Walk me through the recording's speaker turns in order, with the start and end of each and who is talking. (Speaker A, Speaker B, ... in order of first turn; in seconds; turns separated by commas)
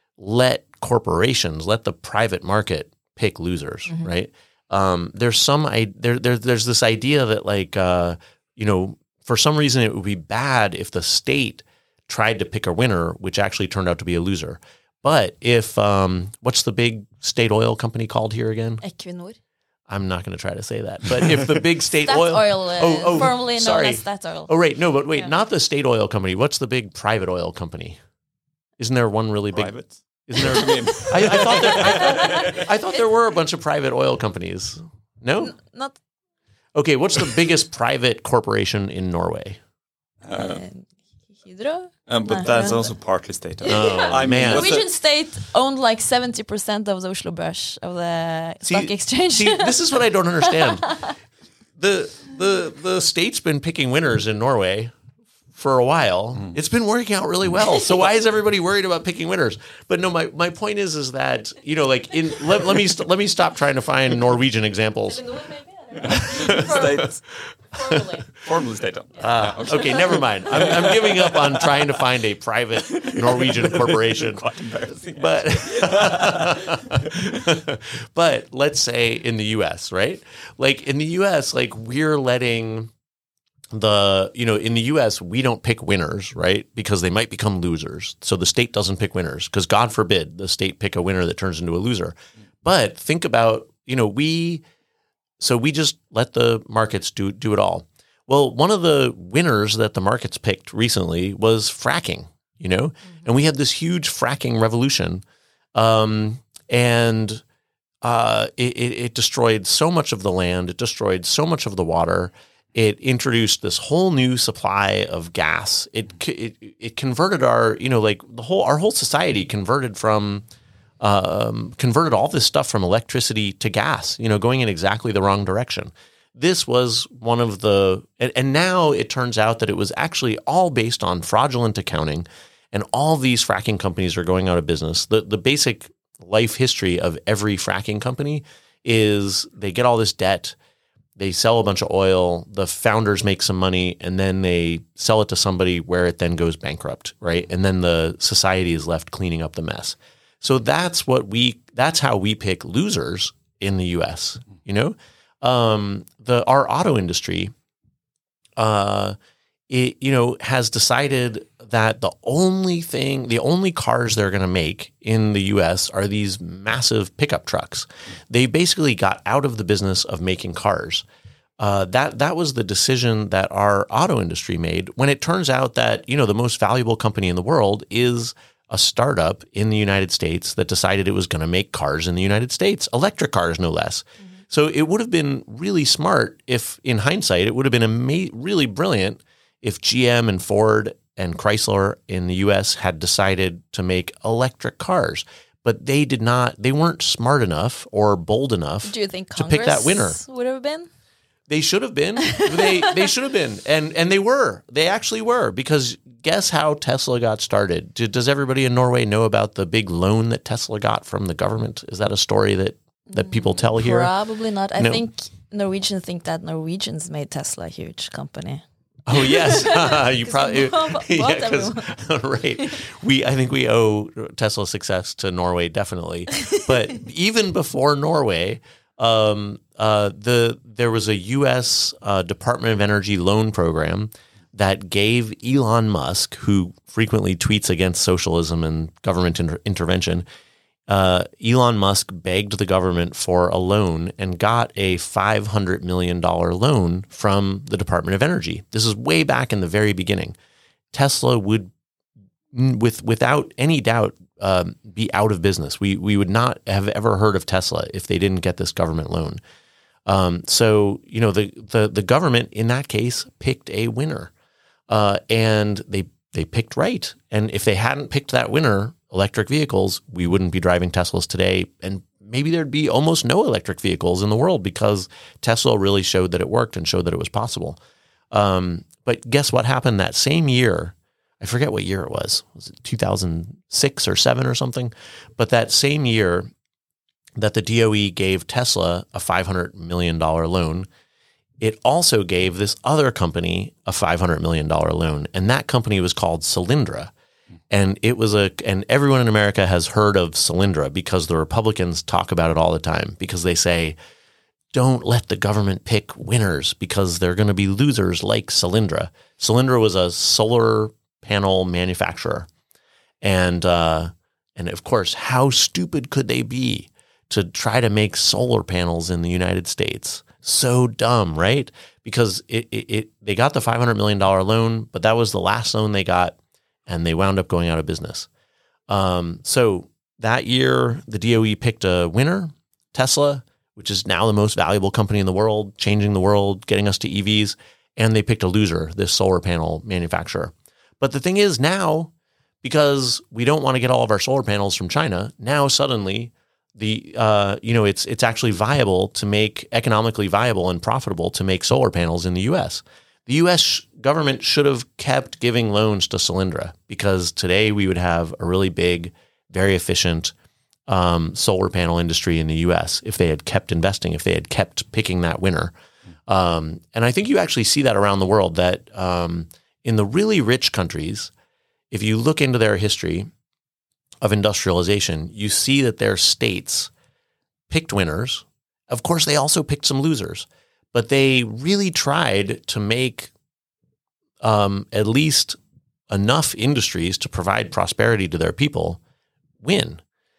Speaker A: 0.2-18.8, Speaker B: 18.8-19.4, Speaker A: 19.9-28.0, Speaker B: 22.1-24.5, Speaker A: 28.8-35.5, Speaker C: 29.5-32.6, Speaker B: 31.9-32.6, Speaker B: 35.4-36.0, Speaker A: 36.7-39.6, Speaker C: 40.2-40.6, Speaker B: 40.3-40.9, Speaker B: 41.4-42.9, Speaker C: 42.1-44.9, Speaker B: 43.6-49.8, Speaker A: 43.7-44.7, Speaker A: 48.6-50.9, Speaker B: 50.4-51.1, Speaker A: 51.8-54.9, Speaker A: 55.5-65.4, Speaker B: 65.3-67.2, Speaker A: 66.0-67.0, Speaker C: 66.4-67.1, Speaker B: 67.7-68.2, Speaker A: 67.8-68.0, Speaker C: 68.3-72.0, Speaker A: 69.2-82.9, Speaker C: 72.9-77.4, Speaker A: 83.7-94.6, Speaker A: 95.4-105.2, Speaker A: 105.7-107.4, Speaker A: 108.0-120.4, Speaker A: 121.0-140.6, Speaker A: 141.2-157.5, Speaker A: 158.6-159.2, Speaker A: 159.7-171.0, Speaker A: 171.6-200.2, Speaker B: 198.8-200.9, Speaker A: 201.5-214.1, Speaker B: 213.1-221.9, Speaker A: 214.8-215.0, Speaker A: 219.1-240.2, Speaker A: 240.9-250.3, Speaker A: 250.9-251.7, Speaker A: 252.5-259.4, Speaker A: 260.1-264.3, Speaker A: 264.9-277.8, Speaker A: 278.3-286.5, Speaker A: 287.4-290.9, Speaker A: 291.6-297.1, Speaker A: 297.7-303.9, Speaker A: 304.7-312.5, Speaker A: 313.2-328.3, Speaker A: 328.9-342.1, Speaker A: 342.6-360.3, Speaker A: 360.9-365.7, Speaker A: 366.3-371.3, Speaker A: 371.9-373.3, Speaker A: 374.2-376.9, Speaker A: 377.7-383.3, Speaker A: 384.4-385.6, Speaker A: 386.1-389.0, Speaker A: 389.6-390.0